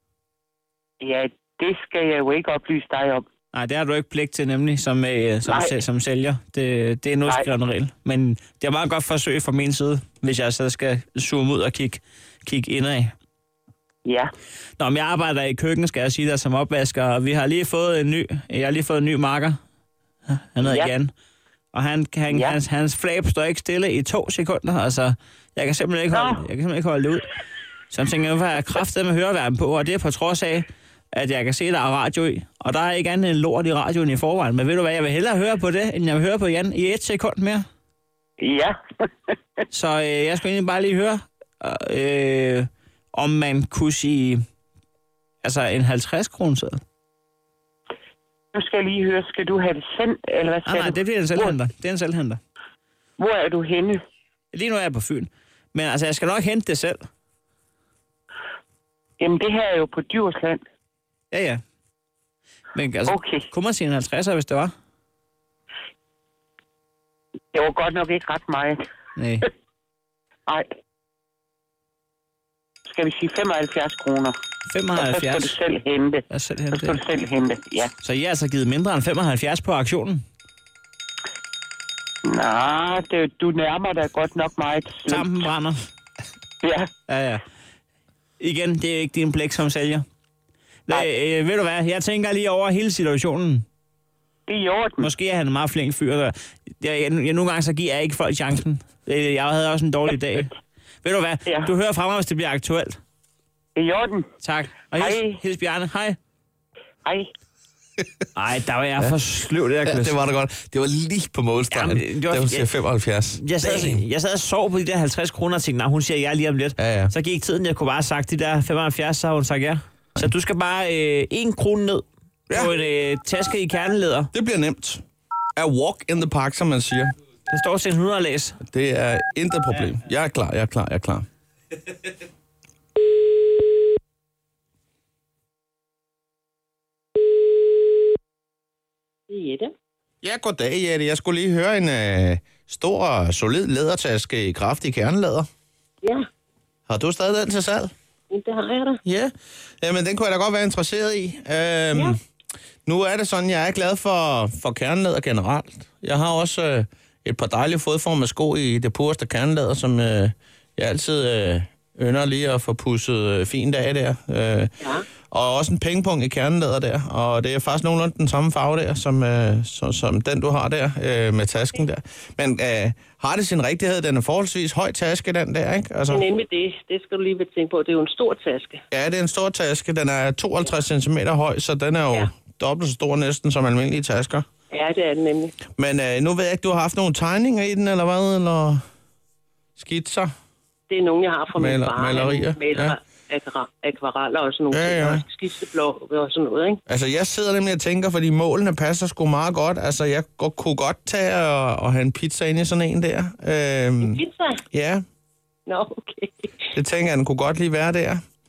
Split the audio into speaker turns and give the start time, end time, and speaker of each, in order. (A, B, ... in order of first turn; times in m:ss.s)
0:01.0-0:03.2 A
0:03.5-0:13.1 B
0:05.4-0:05.7 A
0:14.0-0:14.3 A
0:14.8-0:19.6 B
0:20.3-0:21.1 B
0:20.6-0:20.9 A
0:21.7-0:27.3 B
0:22.3-0:22.6 A
0:26.1-0:26.4 A
0:27.9-0:37.6 B
0:38.4-0:39.3 A
0:39.7-0:44.4 B
0:45.4-0:46.8 B
0:48.5-0:51.6 A
0:50.6-0:52.4 B
0:53.2-0:54.0 A
0:54.5-0:57.1 B
0:59.2-1:00.6 A
1:01.3-1:01.6 B
1:02.7-1:04.7 B
1:03.1-1:03.4 A
1:07.5-1:08.8 A
1:09.2-1:09.4 B
1:12.9-1:14.3 A
1:14.7-1:15.5 B
1:15.0-1:16.2 A
1:16.3-1:17.0 B
1:16.7-1:17.9 A
1:18.0-1:20.2 B
1:22.2-1:25.3 A
1:25.1-1:25.8 B
1:26.6-1:26.9 A
1:27.1-1:27.4 B
1:28.4-1:30.0 B
1:30.9-1:33.6 B
1:34.5-1:35.1 A
1:35.0-1:43.0 B
1:41.4-1:41.7 A
1:43.8-1:44.3 A
1:44.4-1:46.2 B
1:44.9-1:45.4 A
1:48.3-1:50.2 B
1:49.8-1:54.0 C
1:51.7-1:52.7 B
1:53.4-2:04.3 B
1:56.8-1:57.1 C
2:04.3-2:05.0 C
2:05.6-2:07.1 C
2:07.5-2:08.6 B
2:08.6-2:11.2 C
2:19.3-2:19.7 D
2:20.2-2:25.5 C
2:26.9-2:27.9 C
2:28.3-2:29.0 D
2:29.0-2:32.2 C
2:32.8-2:44.7 C
2:45.3-2:56.2 C
2:56.1-2:58.8 D
2:58.9-3:04.4 C
3:04.7-3:05.6 D
3:05.7-3:08.8 C
3:09.8-3:10.3 C
3:10.9-3:16.8 D
3:11.5-3:13.0 C
3:14.7-3:15.2 C
3:16.9-3:24.2 C
3:24.0-3:24.6 D
3:24.7-3:25.0 C
3:25.7-3:26.4 D
3:26.7-3:28.2 C